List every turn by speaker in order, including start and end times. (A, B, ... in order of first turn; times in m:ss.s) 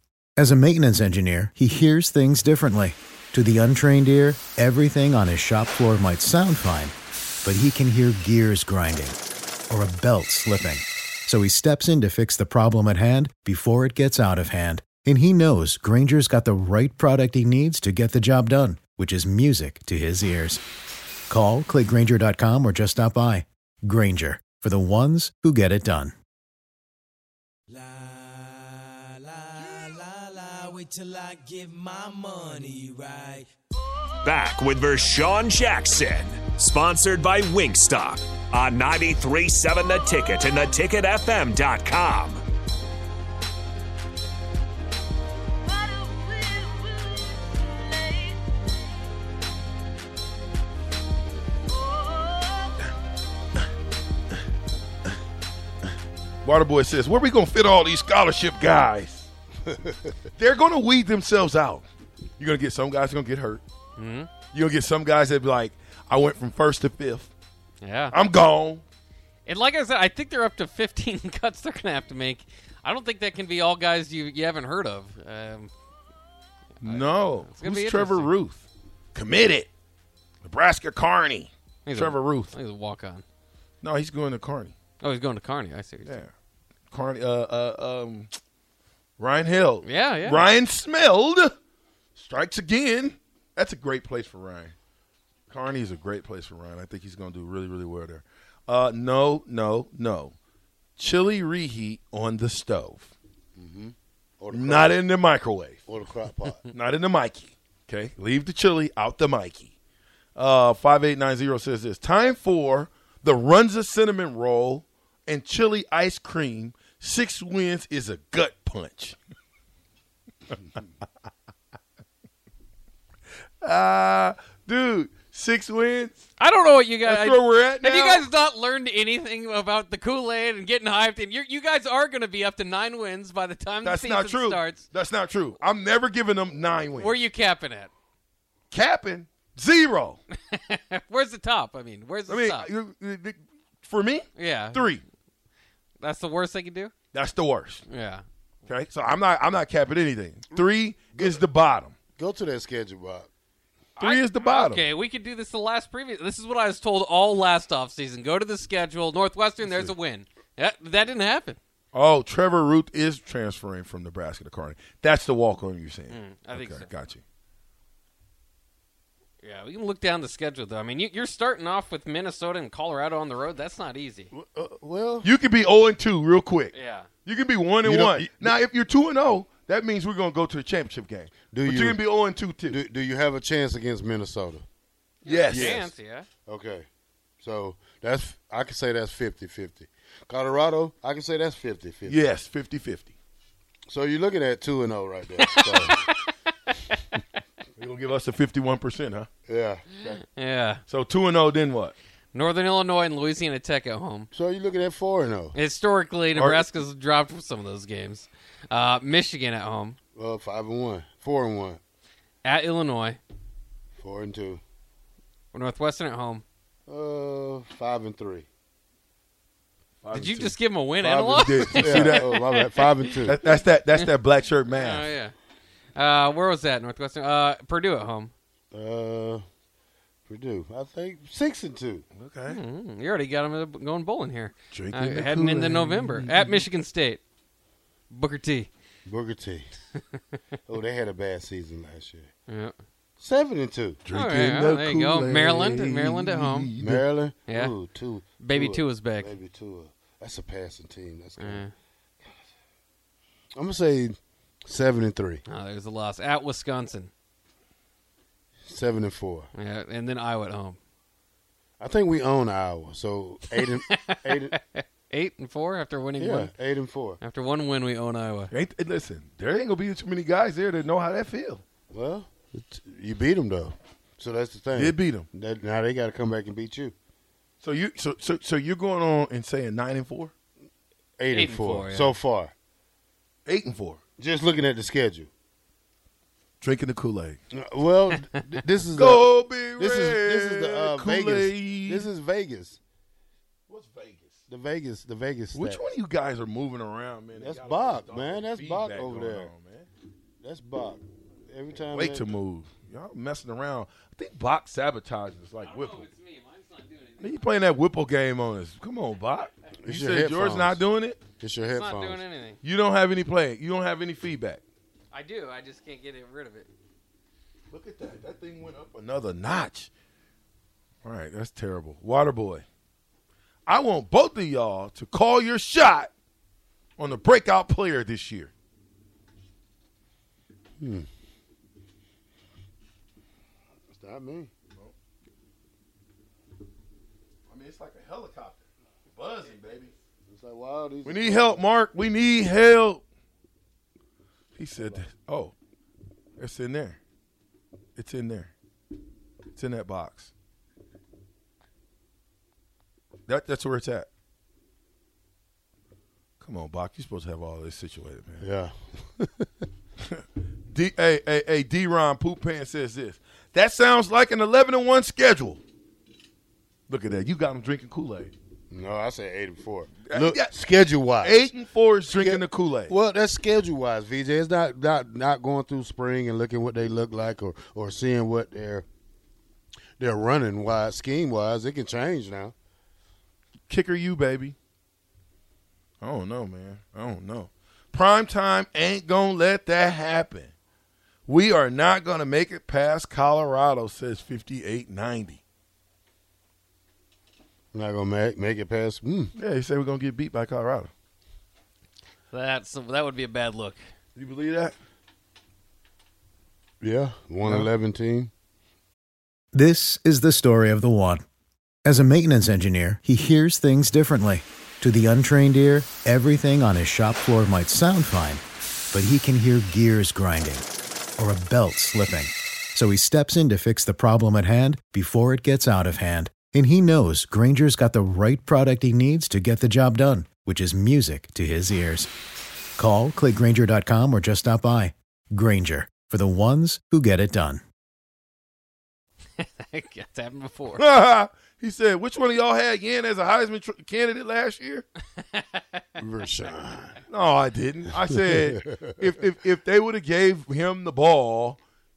0:00.4-0:09.2 A
0:09.7-0:20.6 A
0:21.3-0:26.1 A
0:27.7-0:33.5 B
0:34.2-0:42.4 C
0:56.4-0:59.3 D
1:00.4-1:01.9 D
1:02.4-1:03.6 D
1:04.0-1:04.3 E
1:04.5-1:07.3 D
1:07.8-1:08.2 E
1:08.1-1:08.8 D
1:09.5-1:15.7 E
1:16.8-1:18.3 E
1:16.8-1:19.7 D
1:20.4-1:22.5 D
1:21.9-1:23.2 E
1:23.8-1:24.7 D
1:25.0-1:26.2 E
1:26.0-1:26.3 D
1:26.9-1:28.3 D
1:29.2-1:31.6 D
1:29.8-1:30.5 E
1:32.2-1:34.8 D
1:35.5-1:40.4 D
1:41.0-1:43.1 D
1:43.6-1:45.0 F
1:44.5-1:45.8 D
1:45.9-1:46.6 F
1:46.7-1:49.7 D
1:50.4-1:59.2 D
2:03.6-2:06.2 D
2:06.4-2:14.9 E
2:07.0-2:08.3 D
2:13.8-2:17.2 D
2:16.9-2:17.9 E
2:18.7-2:20.2 D
2:20.5-2:22.7 E
2:22.3-2:25.0 D
2:24.4-2:25.0 E
2:26.0-2:26.9 E
2:27.1-2:27.8 D
2:27.9-2:28.2 E
2:28.7-2:32.0 D
2:31.2-2:31.4 F
2:32.2-2:33.3 F
2:34.0-2:34.8 D
2:34.0-2:41.6 E
2:39.6-2:39.9 F
2:41.9-2:47.2 D
2:46.1-2:46.9 E
2:49.4-2:54.3 E
2:54.3-2:55.3 F
2:55.2-2:56.7 D
2:56.7-2:57.1 E
2:57.2-3:02.8 D
2:57.8-2:58.6 F
3:01.5-3:02.0 F
3:02.7-3:04.6 F
3:05.2-3:06.3 E
3:05.3-3:05.8 D
3:05.4-3:05.9 F
3:06.5-3:06.9 F
3:07.4-3:12.2 F
3:12.1-3:13.2 D
3:13.9-3:16.0 F
3:15.4-3:17.0 E
3:17.8-3:19.3 D
3:19.5-3:20.2 F
3:20.3-3:20.8 E
3:20.9-3:22.0 D
3:22.3-3:24.3 E
3:24.3-3:25.6 F
3:25.5-3:30.0 E
3:26.3-3:26.7 D
3:30.2-3:31.8 F
3:32.4-3:33.2 E
3:34.0-3:34.6 F
3:35.5-3:36.4 E
3:36.9-3:38.5 F
3:40.0-3:42.3 D
3:40.1-3:44.1 E
3:41.3-3:43.4 F
3:43.2-3:45.1 D
3:44.7-3:45.4 E
3:46.0-3:48.3 E
3:48.7-3:49.4 F
3:50.3-3:52.1 F
3:52.2-3:52.6 D
3:52.5-3:57.2 E
3:54.7-3:56.6 D
3:58.1-3:58.7 E
3:59.0-3:59.8 F
4:00.7-4:02.3 F
4:02.5-4:02.8 E
4:03.2-4:04.0 F
4:04.0-4:07.1 D
4:04.1-4:06.7 E
4:06.8-4:11.7 F
4:07.5-4:07.7 E
4:08.4-4:09.4 E
4:11.4-4:11.7 E
4:13.6-4:15.4 F
4:15.5-4:17.1 E
4:18.7-4:19.5 F
4:19.6-4:20.8 E
4:21.8-4:24.6 F
4:23.5-4:26.5 E
4:26.2-4:27.2 F
4:27.2-4:28.5 E
4:28.5-4:31.6 D
4:31.9-4:36.9 F
4:34.7-4:35.3 D
4:37.6-4:40.3 D
4:41.2-4:42.5 F
4:41.3-4:42.2 E
4:43.5-4:44.0 D
4:44.2-4:45.3 F
4:46.6-4:47.4 D
4:47.5-4:52.8 F
4:49.0-4:52.1 D
4:53.7-4:54.4 D
4:54.5-4:55.9 F
4:55.5-4:59.9 D
4:57.4-4:59.5 F
5:00.4-5:02.4 F
5:01.9-5:06.1 D
5:05.6-5:07.6 E
5:07.2-5:11.2 D
5:09.8-5:10.8 F
5:11.4-5:12.2 F
5:11.7-5:12.6 E
5:12.6-5:14.6 D
5:15.1-5:16.7 E
5:17.7-5:19.9 D
5:21.0-5:22.6 D
5:23.7-5:26.1 D
5:27.0-5:28.5 D
5:30.8-5:31.1 F
5:33.9-5:34.5 F
5:37.5-5:40.0 D
5:40.3-5:41.6 F
5:41.0-5:43.0 D
5:44.6-5:45.5 D
5:46.4-5:47.0 D
5:48.0-5:48.5 D
5:49.5-5:50.3 D
5:53.3-5:54.1 D
5:56.4-5:58.5 D
5:58.4-5:59.6 F
6:00.0-6:05.6 D
6:06.9-6:08.3 D
6:08.7-6:11.5 F
6:10.1-6:10.5 D
6:11.2-6:12.9 D
6:12.1-6:18.8 F
6:20.0-6:22.5 F
6:23.7-6:24.6 D
6:26.0-6:30.5 D
6:31.3-6:35.4 D
6:37.7-6:39.3 F
6:39.3-6:40.9 D
6:42.3-6:43.8 E
6:44.2-6:44.8 D
6:46.8-6:48.3 F
6:47.4-6:47.7 D
6:49.5-6:51.2 A
6:51.8-7:00.6 A
7:01.2-7:12.1 A
7:12.8-7:17.6 A
7:19.4-7:20.8 E
7:20.7-7:24.9 D
7:25.4-7:25.8 E
7:26.0-7:27.0 F
7:27.1-7:31.6 D
7:28.1-7:28.8 F